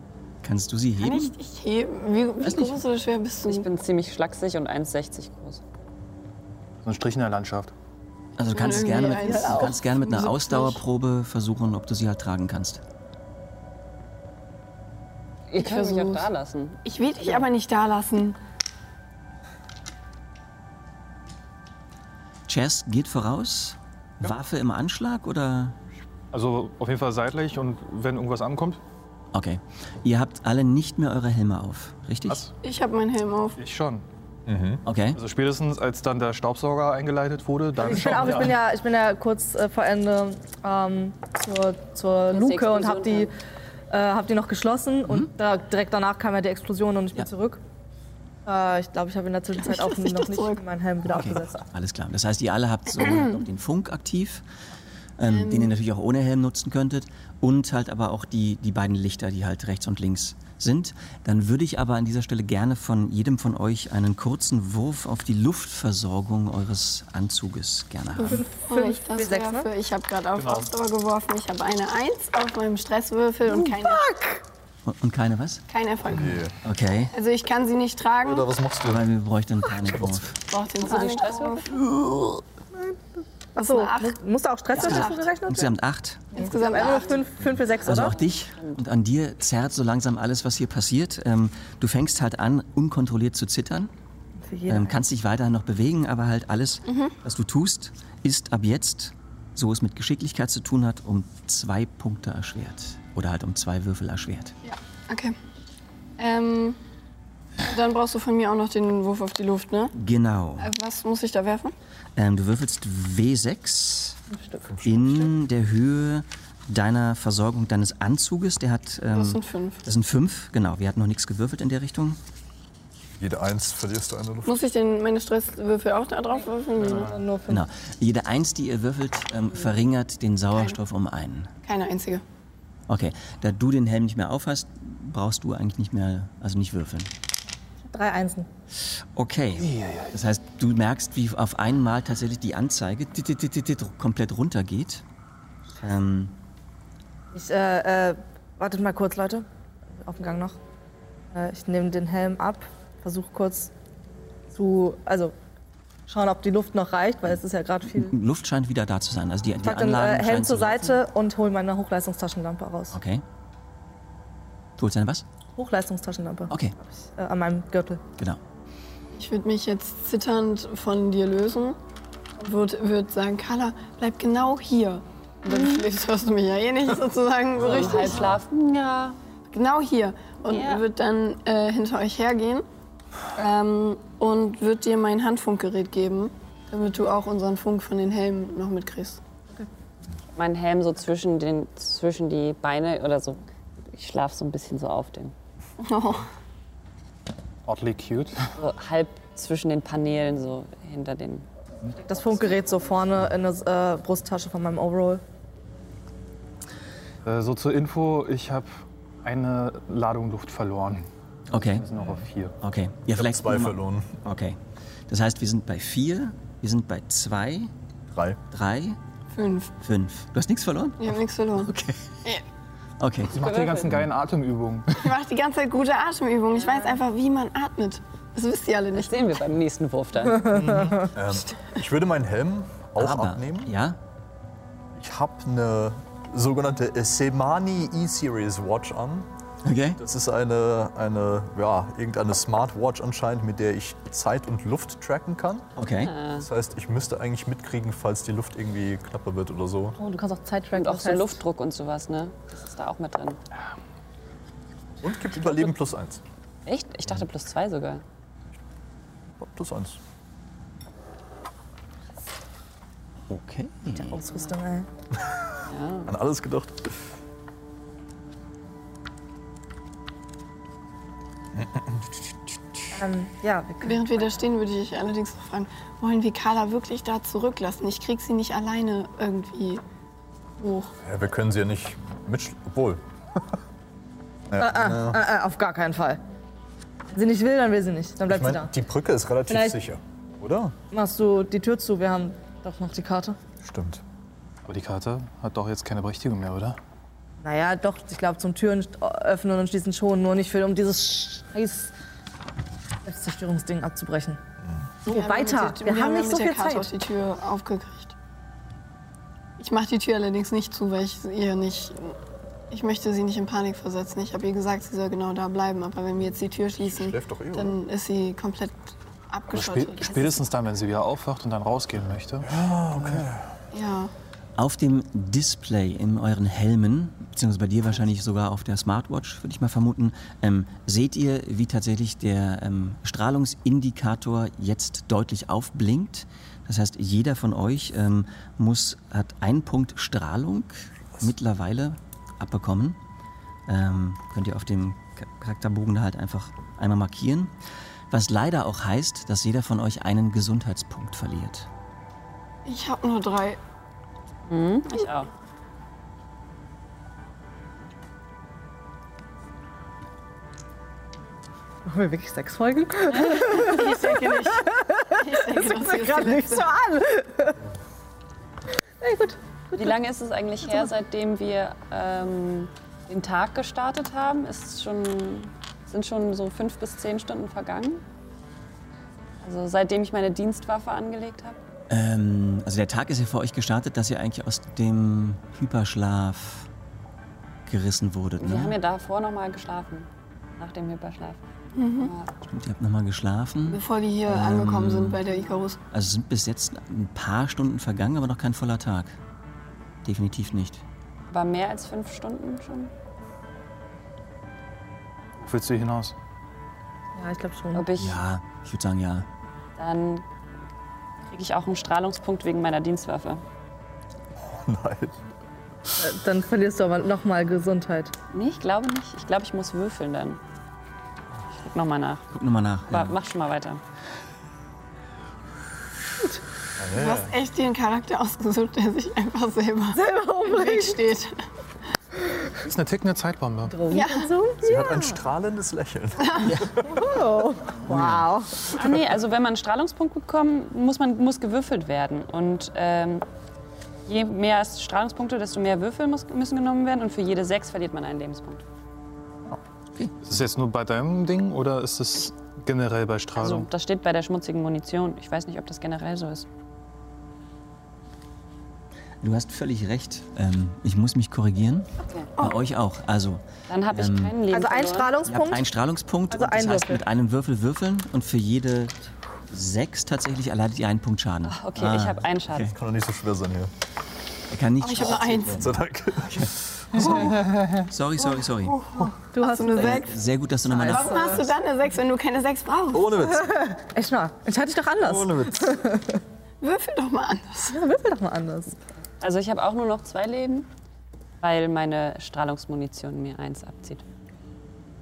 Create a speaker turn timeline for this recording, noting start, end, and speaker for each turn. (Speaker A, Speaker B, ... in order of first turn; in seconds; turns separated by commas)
Speaker A: 0.4-1.3, Speaker B: 1.0-3.7, Speaker A: 2.4-2.8, Speaker C: 3.5-5.6, Speaker D: 6.8-7.7, Speaker A: 8.4-12.8, Speaker B: 8.4-10.8, Speaker E: 9.1-9.7, Speaker C: 15.5-17.5, Speaker B: 15.6-16.3, Speaker B: 16.8-18.4, Speaker A: 22.5-25.8, Speaker D: 26.3-28.8, Speaker A: 29.3-32.4, Speaker D: 32.3-32.5, Speaker B: 32.6-33.6, Speaker D: 33.5-34.0, Speaker F: 34.5-34.8, Speaker A: 34.8-35.2, Speaker D: 35.1-38.6, Speaker E: 37.8-43.3, Speaker C: 42.3-43.3, Speaker E: 43.9-47.6, Speaker E: 48.5-51.6, Speaker B: 49.6-50.6, Speaker A: 51.1-54.4, Speaker A: 55.2-68.4, Speaker B: 55.2-55.7, Speaker B: 68.2-74.1, Speaker E: 68.2-69.7, Speaker D: 70.3-70.7, Speaker E: 73.5-74.4, Speaker A: 74.8-75.6, Speaker B: 75.7-76.4, Speaker F: 76.1-76.5, Speaker A: 76.6-77.1, Speaker B: 77.1-78.5, Speaker F: 78.2-79.1, Speaker A: 78.8-80.4, Speaker F: 79.8-80.2, Speaker B: 80.5-81.8, Speaker C: 80.8-81.8, Speaker A: 81.7-82.4, Speaker E: 83.5-85.7, Speaker B: 83.6-84.2, Speaker B: 84.7-85.2, Speaker A: 84.7-86.4, Speaker E: 86.3-88.2, Speaker B: 86.3-87.2, Speaker A: 87.8-93.9, Speaker E: 94.5-95.0, Speaker A: 94.7-104.5, Speaker B: 96.8-97.1, Speaker B: 104.6-105.3, Speaker B: 106.2-106.8, Speaker B: 107.6-109.9, Speaker A: 109.9-110.7, Speaker B: 110.6-111.7, Speaker A: 112.2-114.2, Speaker E: 114.3-114.7, Speaker F: 114.6-115.3, Speaker A: 114.8-122.2, Speaker B: 119.1-119.8, Speaker F: 123.2-124.5, Speaker B: 124.4-127.2, Speaker D: 126.8-127.1, Speaker E: 127.0-127.7, Speaker A: 127.5-131.5, Speaker B: 131.6-132.2, Speaker A: 132.9-137.1, Speaker E: 137.9-138.5, Speaker A: 139.1-145.0, Speaker D: 139.6-140.2, Speaker A: 145.8-146.3, Speaker E: 147.3-149.4, Speaker E: 150.0-150.6, Speaker E: 151.3-153.7, Speaker E: 154.5-155.3, Speaker E: 156.1-158.1, Speaker A: 157.9-161.0, Speaker E: 159.6-163.0, Speaker A: 162.9-163.2, Speaker A: 164.8-165.2, Speaker E: 165.6-166.5, Speaker A: 166.5-166.7, Speaker E: 167.2-168.0, Speaker B: 169.1-171.8, Speaker B: 172.4-178.3, Speaker C: 175.5-175.8, Speaker C: 177.6-179.2, Speaker B: 179.5-182.6, Speaker C: 180.5-180.8, Speaker B: 183.3-189.2, Speaker C: 190.3-193.4, Speaker C: 193.9-195.3, Speaker B: 195.8-196.3, Speaker D: 197.6-198.5, Speaker C: 198.6-201.4, Speaker E: 202.0-205.2, Speaker D: 207.2-212.6, Speaker A: 211.5-211.8, Speaker A: 212.6-214.6, Speaker F: 213.1-214.1, Speaker A: 215.1-217.7, Speaker F: 218.1-218.4, Speaker A: 218.5-219.0, Speaker B: 219.3-219.7, Speaker A: 219.8-222.0, Speaker B: 221.0-221.7, Speaker A: 223.0-223.3, Speaker D: 223.3-225.1, Speaker C: 223.3-223.9, Speaker B: 225.0-229.2, Speaker C: 228.9-230.6, Speaker D: 230.5-230.9, Speaker E: 230.5-231.1, Speaker F: 231.1-233.7, Speaker A: 232.9-234.0, Speaker F: 235.0-239.3, Speaker A: 239.6-240.0, Speaker F: 240.0-245.7, Speaker A: 245.8-246.1, Speaker C: 246.0-246.4, Speaker F: 246.3-249.9, Speaker E: 250.0-251.4, Speaker C: 250.7-253.4, Speaker F: 255.0-256.2, Speaker C: 255.4-255.7, Speaker C: 256.6-258.0, Speaker F: 259.4-260.0, Speaker A: 263.3-264.2, Speaker E: 263.9-264.9, Speaker C: 265.7-266.1, Speaker F: 266.1-266.9, Speaker F: 271.6-272.2, Speaker E: 272.9-274.1, Speaker B: 273.8-279.8, Speaker B: 280.6-280.9, Speaker F: 281.0-283.4, Speaker F: 284.5-285.2, Speaker E: 284.6-286.2, Speaker E: 287.1-288.7, Speaker F: 288.3-290.7, Speaker E: 289.5-289.8, Speaker E: 290.9-293.4, Speaker F: 293.6-294.0, Speaker D: 294.6-296.8, Speaker E: 297.4-301.9, Speaker E: 303.0-304.4, Speaker B: 305.0-308.1, Speaker E: 305.0-306.9, Speaker B: 309.6-312.1, Speaker B: 312.7-320.4, Speaker F: 316.8-317.8, Speaker D: 319.5-323.3, Speaker F: 322.4-323.5, Speaker B: 323.7-324.1, Speaker A: 324.6-343.0, Speaker A: 343.7-347.5, Speaker A: 348.1-351.7, Speaker B: 352.6-353.6, Speaker C: 354.5-355.3, Speaker E: 361.9-367.6, Speaker C: 363.1-363.5, Speaker B: 363.5-366.7, Speaker E: 369.0-370.0, Speaker C: 369.8-378.0, Speaker E: 370.6-370.9, Speaker C: 379.4-381.6, Speaker A: 381.9-386.7, Speaker A: 387.6-388.8, Speaker C: 388.4-391.4, Speaker B: 391.7-392.1, Speaker C: 392.0-392.3, Speaker A: 392.5-395.2, Speaker B: 393.7-395.8, Speaker A: 395.9-399.1, Speaker A: 400.0-400.8, Speaker C: 401.3-402.9, Speaker D: 405.4-406.1, Speaker E: 407.1-407.9, Speaker C: 407.7-408.2, Speaker A: 408.0-409.3, Speaker C: 409.8-410.2, Speaker C: 411.3-413.4, Speaker F: 414.4-415.2, Speaker E: 416.0-418.1, Speaker C: 418.3-420.4, Speaker C: 421.5-422.3, Speaker A: 422.3-423.1, Speaker C: 422.9-423.8, Speaker F: 426.8-427.3, Speaker B: 426.9-431.3, Speaker E: 429.9-431.0, Speaker D: 432.6-433.8, Speaker E: 433.7-435.2, Speaker B: 433.9-434.3, Speaker F: 434.6-436.9, Speaker B: 436.3-436.5, Speaker E: 436.8-438.6, Speaker C: 438.7-443.2, Speaker C: 444.1-448.6, Speaker D: 450.2-453.7, Speaker C: 453.4-456.5, Speaker A: 459.2-464.4, Speaker C: 463.7-465.1, Speaker E: 464.5-465.7, Speaker A: 465.2-468.9, Speaker E: 466.3-467.0, Speaker A: 469.5-472.7, Speaker C: 471.4-472.7, Speaker F: 472.7-473.7, Speaker A: 474.5-475.7, Speaker B: 474.8-475.7, Speaker F: 475.5-477.4, Speaker A: 476.3-478.8, Speaker E: 479.1-480.1, Speaker B: 479.4-480.1, Speaker A: 479.8-481.5, Speaker E: 480.7-481.4, Speaker B: 480.8-483.1, Speaker F: 482.9-483.7, Speaker E: 483.3-486.2, Speaker F: 485.0-485.7, Speaker B: 486.6-487.8, Speaker E: 487.7-488.8, Speaker C: 489.2-490.7, Speaker C: 491.4-494.0